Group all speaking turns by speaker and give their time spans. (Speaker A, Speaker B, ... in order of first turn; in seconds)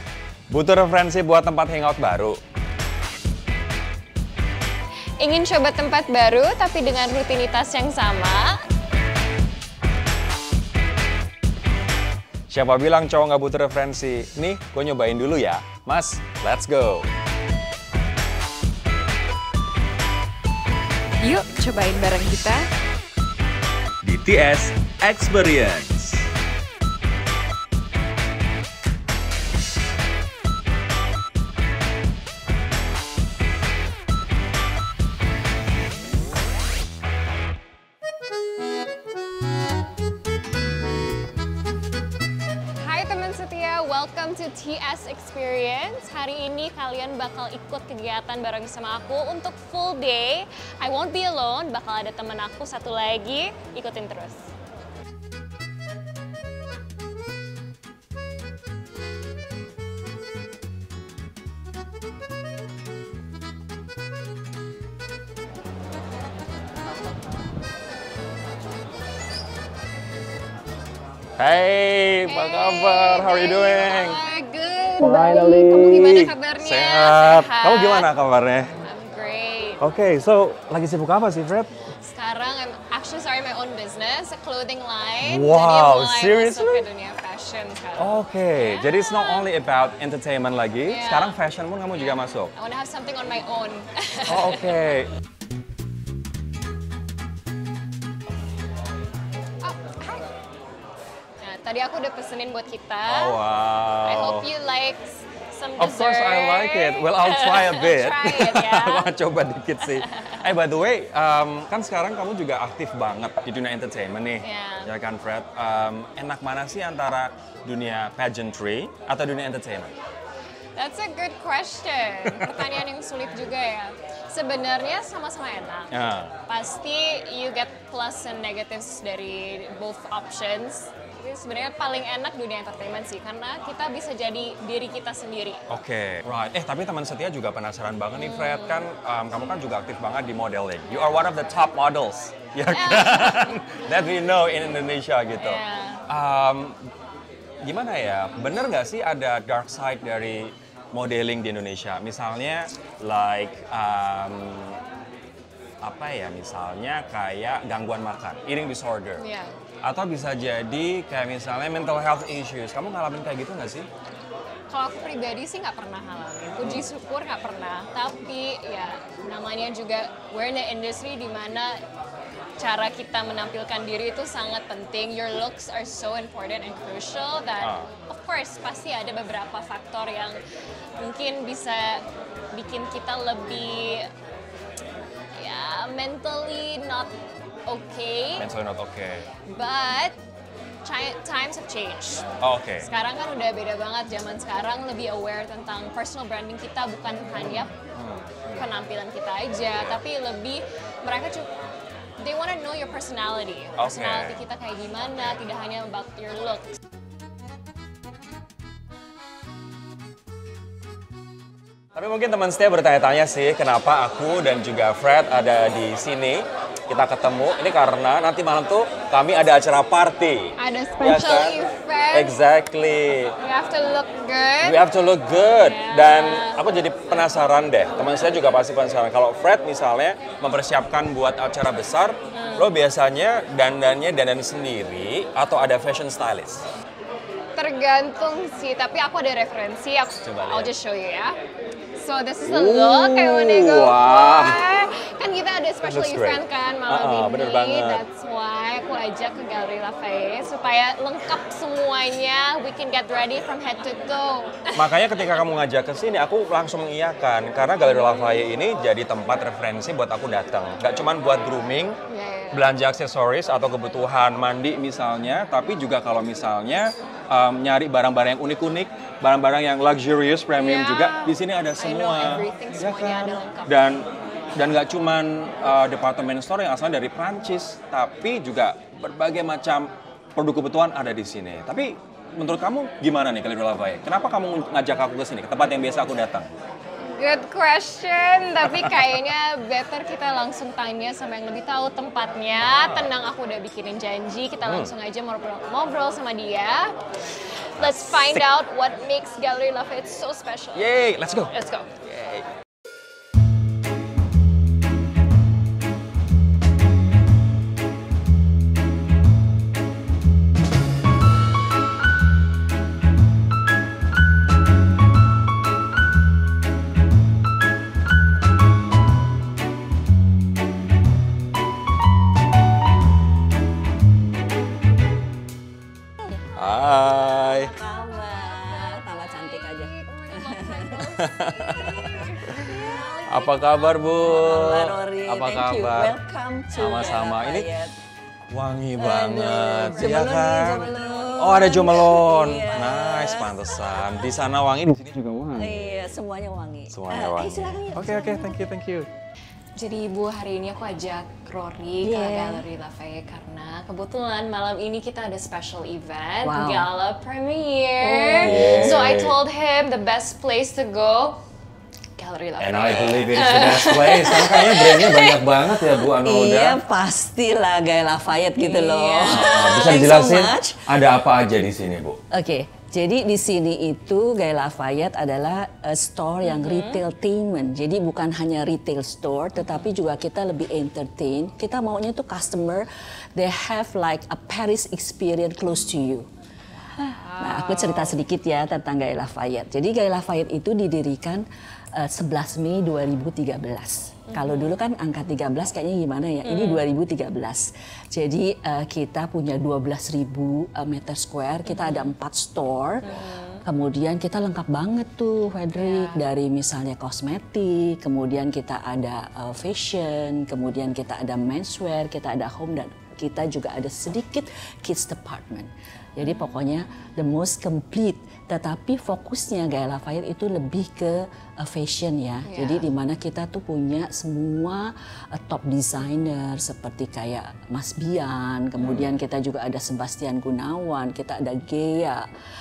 Speaker A: 0.5-2.4, 12.5-17.1, 24.0-26.3, 71.4-74.2, 75.0-78.7, 79.8-81.7, 85.2-86.8, 88.0-92.5, 94.3-95.1, 103.0-104.5, 105.8-119.9, 122.4-122.7, 125.9-126.3, 135.7-146.8, 147.6-154.8, 155.8-159.2, 159.8-163.9, 166.6-166.9, 177.6-177.9, 188.4-189.3, 192.4-192.9, 197.3-198.7, 199.7-200.0, 203.8-204.5, 211.9-221.6, 222.1-223.3, 224.6-236.6, 240.2-240.7, 242.4-244.7, 245.8-248.0, 254.7-262.0, 262.5-286.5, 288.6-288.9, 292.6-293.1, 294.6-294.9, 297.8-298.4, 300.7-302.5, 326.6-327.8, 331.1-332.5, 333.3-336.2, 336.7-337.7, 338.5-346.0, 346.9-349.1, 358.4-359.4, 362.6-366.8, 369.3-372.2, 428.8-429.2
Speaker B: 5.2-8.6, 21.2-22.7, 42.8-54.5, 72.2-78.1, 78.8-79.8, 82.0-89.5, 90.9-91.3, 91.9-94.7, 99.6-100.3, 101.4-103.4, 104.0-109.1, 109.8-110.4, 114.4-114.9, 120.8-125.9, 126.5-135.6, 138.1-138.8, 142.7-143.6, 145.4-146.0, 159.2-159.5, 164.7-171.8, 172.6-180.4, 181.0-184.1, 185.3-187.1, 187.7-188.5, 189.5-190.2, 190.8-197.7, 198.5-201.5, 202.2-206.7, 220.6-222.3, 223.4-224.8, 225.5-226.7, 232.3-232.7, 237.5-241.4, 241.9-254.8, 257.8-258.5, 262.1-262.7, 270.5-274.0, 287.0-302.0, 327.9-334.1, 339.8-341.5, 349.8-361.4, 362.1-365.7, 368.6-369.8, 376.4-377.0, 386.9-388.1, 394.3-394.8, 396.4-396.8, 401.6-402.1, 403.0-403.6, 405.7-406.2, 422.4-422.9
Speaker C: 327.0-331.1, 332.5-337.9, 339.0-344.3, 345.5-348.7, 352.0-352.7, 356.4-356.9, 358.0-359.0, 366.1-370.9, 372.3-386.3, 387.3-391.4, 392.0-432.2